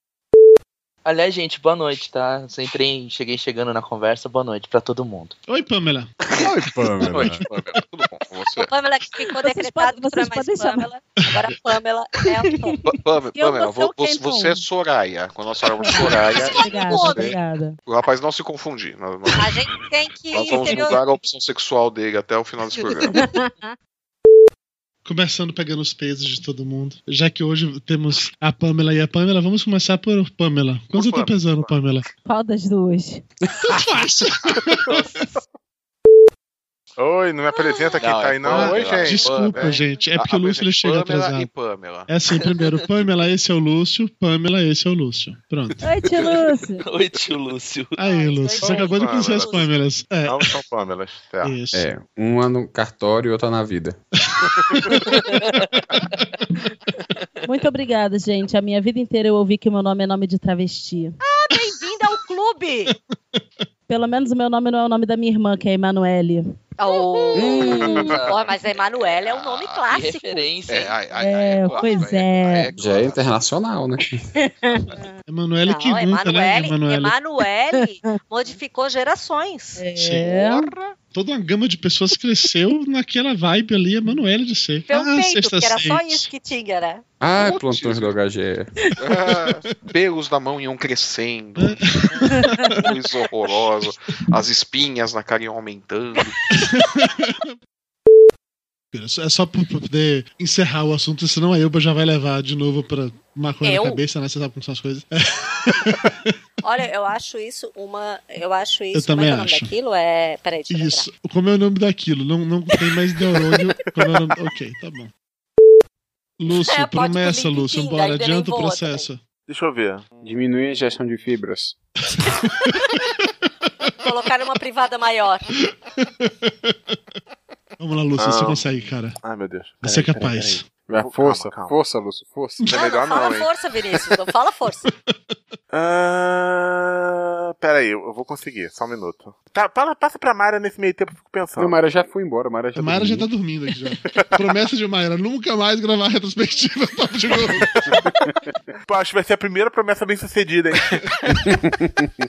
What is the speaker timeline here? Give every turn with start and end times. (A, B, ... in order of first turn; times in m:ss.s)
0:01.0-0:05.4 A
0:05.5-0:06.1 B
0:06.3-0:08.7 C
0:06.4-0:07.4 D
0:08.6-0:12.8 E
0:09.4-0:10.9 F
0:12.8-0:14.6 F
0:12.9-0:19.6 C
0:15.9-0:17.8 F
0:15.9-0:17.3 E
0:19.4-0:21.1 E
0:20.3-0:23.3 C
0:20.5-0:21.0 F
0:23.1-0:23.5 F
0:25.0-0:32.1 B
0:31.0-0:31.4 G
0:32.2-0:33.2 F
0:33.6-0:35.0 B
0:37.0-0:39.3 G
0:38.0-0:42.1 C
0:38.5-0:41.5 B
0:42.1-0:45.8 B
0:45.8-0:46.8 F
0:46.8-0:48.0 A
0:48.0-0:50.6 B
0:48.0-0:49.1 F
0:48.0-0:49.7 E
0:48.8-0:49.5 C
0:49.2-0:49.5 G
0:50.3-0:51.5 G
0:51.4-0:51.9 B
0:51.7-0:54.0 D
0:54.3-0:55.4 B
0:57.4-1:01.2 F
1:01.2-1:02.9 E
1:03.9-1:06.6 F
1:06.8-1:10.5 E
1:07.4-1:07.9 D
1:07.4-1:09.8 C
1:07.8-1:08.1 F
1:08.0-1:08.4 A
1:09.9-1:11.0 A
1:10.7-1:13.4 C
1:11.2-1:12.7 F
1:12.8-1:14.2 D
1:14.4-1:14.9 F
1:15.3-1:17.1 B
1:15.6-1:19.8 E
1:17.9-1:18.2 F
1:19.8-1:20.7 F
1:20.0-1:20.4 B
1:20.2-1:20.9 C
1:21.1-1:26.3 B
1:24.9-1:27.0 E
1:27.2-1:28.7 D
1:27.3-1:28.2 C
1:29.0-1:36.4 C
1:31.6-1:32.8 B
1:36.6-1:37.4 B
1:38.9-1:46.3 B
1:43.6-1:44.0 E
1:46.6-1:51.1 E
1:48.9-1:49.7 B
1:50.7-1:55.1 B
1:53.2-1:53.7 E
1:56.4-1:59.2 B
1:56.5-1:59.1 E
1:59.5-2:00.0 G
2:00.2-2:01.8 D
2:02.2-2:03.1 B
2:04.0-2:05.5 E
2:05.7-2:06.7 B
2:07.8-2:09.2 B
2:08.2-2:08.6 G
2:09.2-2:09.9 G
2:09.8-2:10.7 B
2:09.8-2:12.7 D
2:11.0-2:11.8 G
2:12.7-2:13.5 G
2:12.7-2:14.9 E
2:15.7-2:21.8 G
2:21.6-2:23.3 D
2:22.8-2:28.0 B
2:28.9-2:31.0 G
2:31.7-2:32.1 D